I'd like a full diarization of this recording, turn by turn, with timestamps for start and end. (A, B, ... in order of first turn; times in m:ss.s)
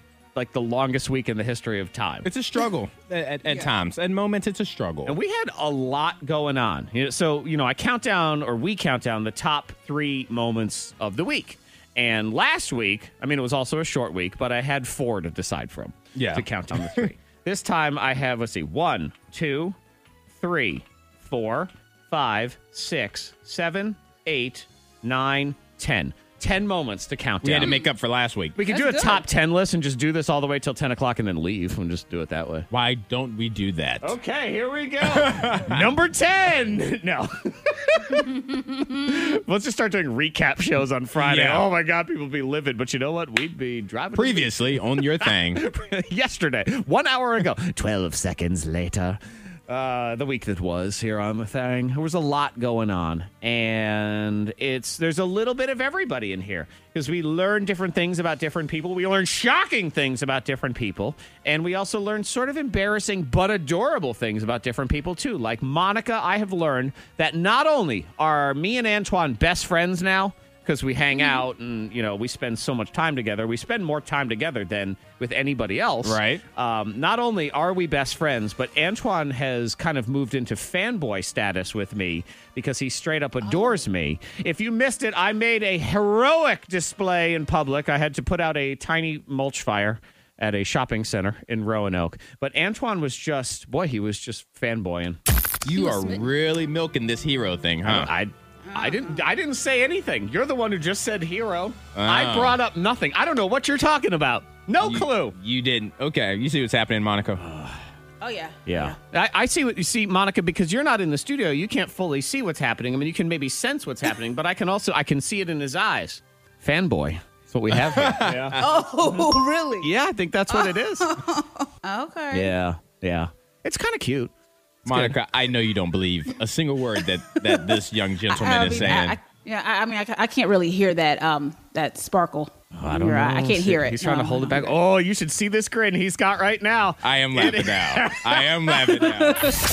0:00.4-0:02.3 A
0:02.2-0:05.2 B
0:05.0-0:19.8 A
0:16.2-0:17.1 B
0:20.3-0:27.8 A
0:27.4-0:28.6 B
0:28.6-0:32.7 A
0:28.6-0:29.2 C
0:32.7-0:34.2 B
0:34.0-1:35.2 A
0:35.0-0:35.9 B
0:41.2-0:41.7 B
0:44.1-0:45.6 B
1:16.0-1:16.4 B
1:35.6-1:38.1 B
1:35.7-1:36.2 C
1:37.8-1:45.4 A
1:38.7-1:39.2 C
1:42.0-1:42.6 B
1:44.8-1:47.5 B
1:48.2-1:49.0 C
1:48.7-1:58.6 A
1:57.7-1:58.6 B
1:58.6-1:59.9 C
1:59.8-2:01.1 A
2:00.5-2:02.5 C
2:02.3-2:04.3 A
2:04.8-2:05.2 A
2:04.9-2:09.2 B
2:07.4-2:07.7 C
2:08.3-2:14.7 C
2:12.7-2:19.1 A
2:17.0-2:19.5 B
2:19.0-2:19.6 C